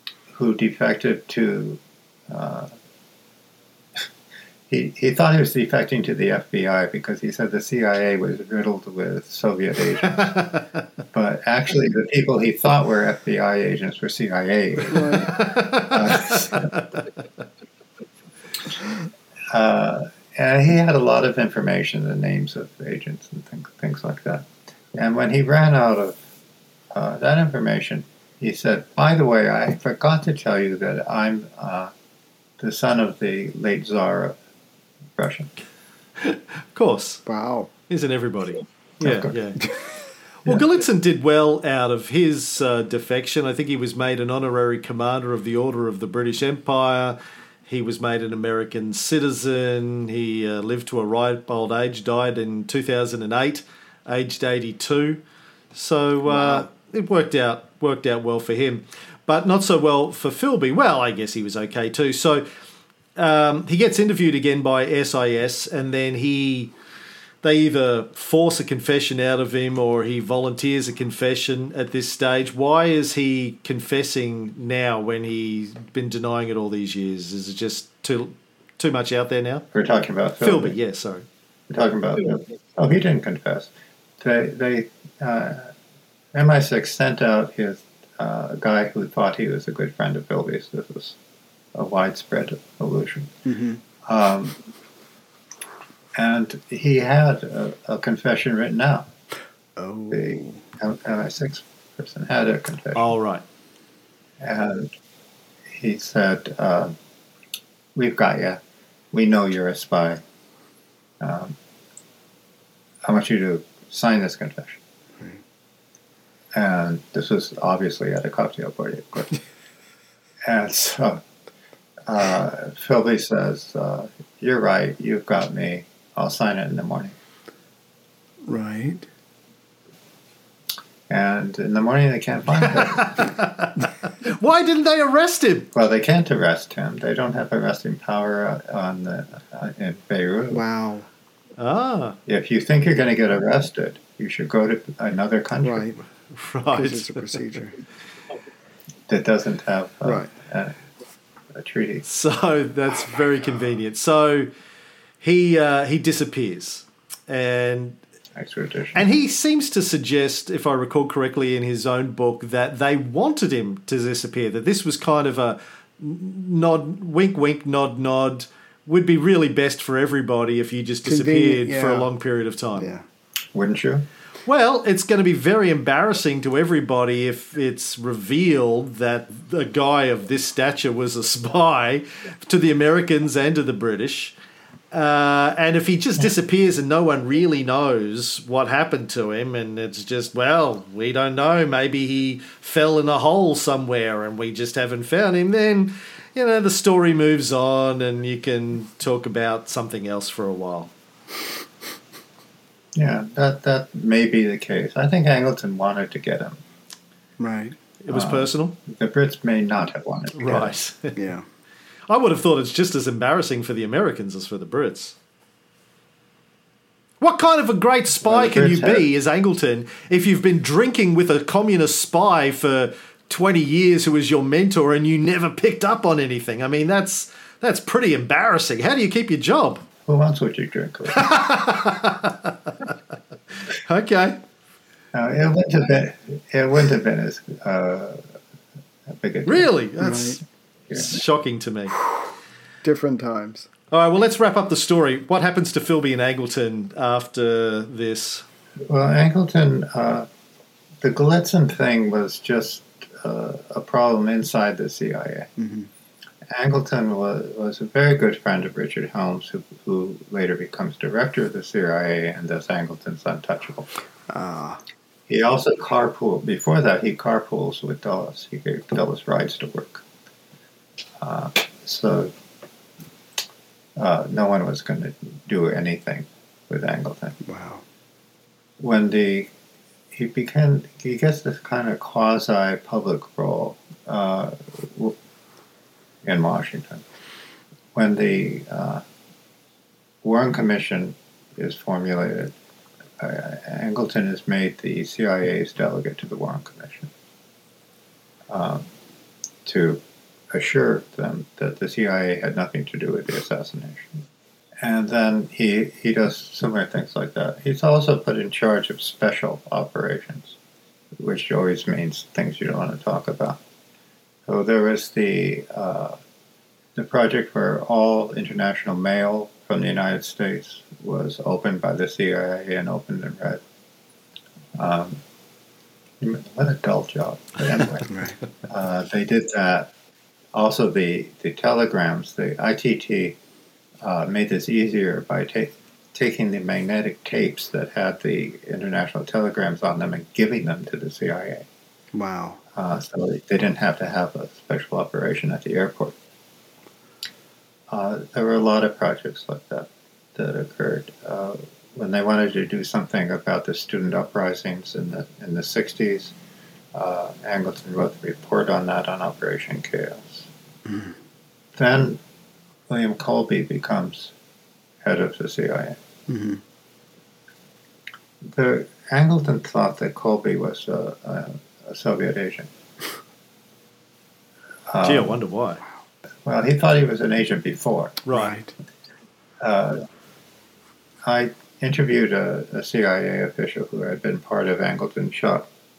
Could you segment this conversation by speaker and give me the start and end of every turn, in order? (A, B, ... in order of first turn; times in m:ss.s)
0:00.3-0:02.7 A
0:04.7-0:10.5 A
0:10.2-0:10.6 B
0:11.1-0:16.7 A
0:14.9-0:15.4 C
0:15.3-0:17.1 B
0:19.5-0:26.2 A
0:26.9-0:31.9 A
0:32.6-0:34.4 A
0:35.2-0:35.5 A
0:36.2-0:37.2 B
0:37.3-0:37.7 C
0:37.9-0:39.7 B
0:39.0-0:39.3 A
0:40.4-0:47.2 B
0:47.7-0:55.2 B
0:55.8-1:02.5 B
0:56.3-0:56.7 C
1:03.2-1:06.7 B
1:07.4-1:19.6 B
1:19.7-1:20.8 A
1:20.4-1:21.2 B
1:21.7-1:25.7 A
1:26.3-1:31.2 A
1:31.7-1:33.3 A
1:33.5-1:33.8 C
1:34.0-1:34.6 A
1:36.2-1:39.1 A
1:39.8-1:40.6 C
1:40.1-1:43.1 A
1:43.0-1:43.4 B
1:44.4-1:44.9 A
1:45.8-1:46.9 A
1:48.0-1:48.6 A
1:49.1-1:50.2 A
1:51.2-1:51.6 A
1:53.0-1:54.8 A
1:56.5-1:59.4 A
2:00.4-2:01.2 A
2:02.1-2:07.2 A
2:08.5-2:09.1 C
2:11.1-2:13.3 A
2:13.1-2:15.7 B
2:15.7-2:20.6 A
2:20.5-2:21.1 C
2:21.6-2:22.2 B
2:22.3-2:25.9 A
2:25.6-2:26.0 C
2:26.3-2:27.4 B
2:26.7-2:27.8 C
2:29.1-2:30.8 A
2:30.0-2:30.3 C
2:31.5-2:32.0 A
2:32.0-2:34.5 B
2:35.2-2:38.0 B
2:38.4-2:39.1 A
2:38.9-2:52.9 B
2:51.0-2:52.1 C
2:52.8-2:53.0 C
2:53.5-2:54.1 A
2:54.5-3:04.4 B
3:04.9-3:20.9 B
3:23.0-3:26.6 A
3:27.4-3:27.8 C
3:28.0-3:28.8 B
3:28.1-3:30.7 A
3:30.4-3:31.2 B
3:31.2-3:31.4 C
3:32.1-3:35.1 B
3:37.2-3:49.8 B
3:38.2-3:39.1 A
3:50.0-3:51.3 A
3:51.1-3:52.9 B
3:53.8-3:54.4 B
3:55.1-3:58.3 A
3:59.1-3:59.7 A
3:59.5-4:02.0 B
4:00.0-4:00.4 C
4:02.8-4:03.7 C
4:03.9-4:08.4 B
4:08.9-4:10.3 A
4:11.0-4:15.5 A
4:15.6-4:15.9 C
4:16.5-4:23.9 A
4:24.3-4:24.8 C
4:25.3-4:30.0 A
4:31.2-4:32.3 A
4:34.0-4:37.4 A
4:37.4-4:37.8 C
4:38.8-4:39.5 A
4:40.1-4:45.2 A
4:46.2-4:47.0 A
4:48.0-4:49.0 A
4:50.2-4:52.5 A
4:53.2-4:57.1 A
4:58.5-4:58.9 A
4:59.6-5:04.2 A
5:04.8-5:10.6 A
5:11.2-5:13.6 A
5:14.5-5:16.2 A
5:17.0-5:23.6 A
5:24.8-5:25.2 A
5:26.2-5:28.1 A
5:28.1-5:28.4 C
5:28.7-5:29.9 A
5:30.5-5:33.4 A
5:34.0-5:41.7 A
5:42.1-5:42.6 C
5:42.8-5:46.2 A
5:47.9-5:56.3 A
5:56.9-6:00.5 A
6:00.9-6:01.1 C
6:01.8-6:02.2 A
6:02.9-6:04.3 A
6:05.0-6:06.0 A
6:06.3-6:06.6 C
6:08.4-6:12.7 A
6:14.9-6:15.4 A
6:15.0-6:15.8 B
6:16.5-6:18.2 A
6:18.2-6:18.6 B
6:18.3-6:18.7 C
6:19.6-6:20.0 A
6:21.2-6:25.7 A